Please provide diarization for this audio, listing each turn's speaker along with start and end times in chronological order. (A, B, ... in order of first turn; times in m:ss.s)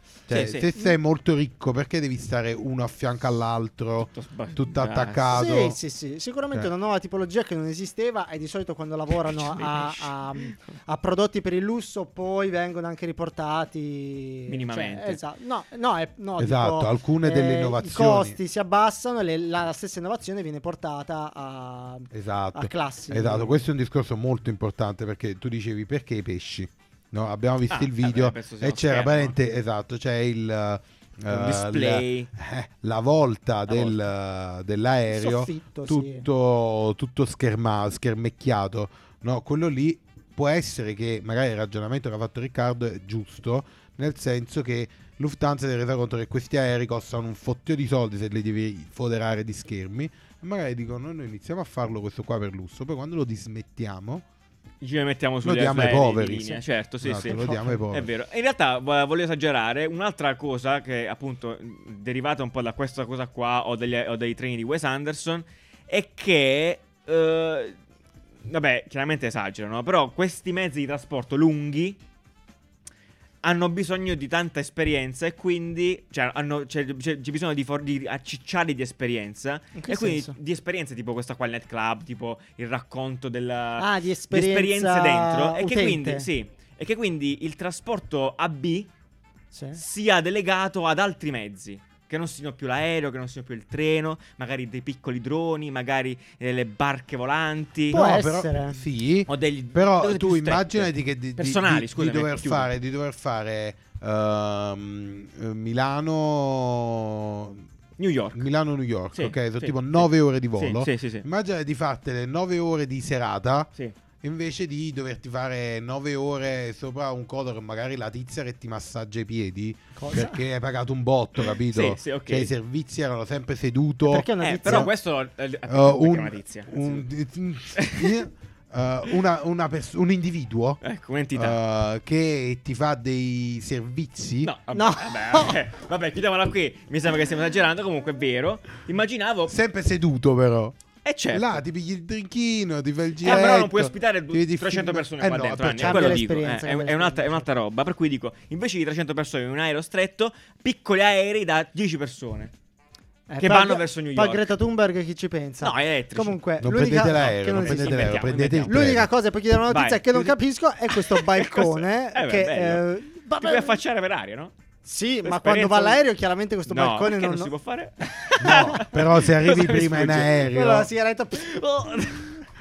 0:00.3-0:05.8 A
0:00.3-0:00.7 B
0:04.0-0:05.5 B
0:05.3-0:23.6 C
0:09.2-0:10.6 B
0:14.5-0:15.2 B
0:16.4-0:18.4 A
0:22.1-0:54.2 A
0:27.7-0:29.4 B
0:31.3-0:32.3 B
0:33.7-0:34.0 B
0:35.1-0:36.3 C
0:54.8-1:07.8 B
0:55.4-0:58.1 A
0:57.2-0:57.8 C
1:08.4-1:12.0 B
1:13.4-1:28.9 B
1:19.8-1:20.4 C
1:23.8-1:26.3 C
1:29.5-1:29.8 C
1:29.8-1:38.0 B
1:37.9-1:38.8 C
1:37.9-1:47.6 A
1:39.3-1:42.7 B
1:48.0-1:48.4 B
1:48.3-1:53.7 A
1:49.2-1:51.3 B
1:54.2-2:04.9 A
2:00.0-2:00.4 C
2:01.4-2:02.5 B
2:04.1-2:04.9 C
2:04.4-2:07.0 B
2:05.7-2:10.8 A
2:07.8-2:08.2 B
2:10.8-2:11.6 B
2:11.3-2:14.5 A
2:14.4-2:19.6 B
2:14.7-2:15.6 C
2:19.5-2:20.8 A
2:21.0-2:21.6 B
2:21.3-2:26.2 A
2:23.2-2:32.5 B
2:25.8-2:27.5 C
2:33.3-2:43.8 C
2:33.4-2:34.5 B
2:35.6-2:36.4 B
2:36.6-2:39.1 A
2:36.9-2:39.0 B
2:39.7-2:40.4 B
2:40.9-2:42.8 B
2:43.4-2:44.5 B
2:44.8-2:47.5 C
2:45.2-2:46.0 B
2:46.7-2:50.6 B
2:48.4-2:50.9 A
2:48.4-2:48.8 C
2:50.5-2:52.3 C
2:51.4-2:52.3 B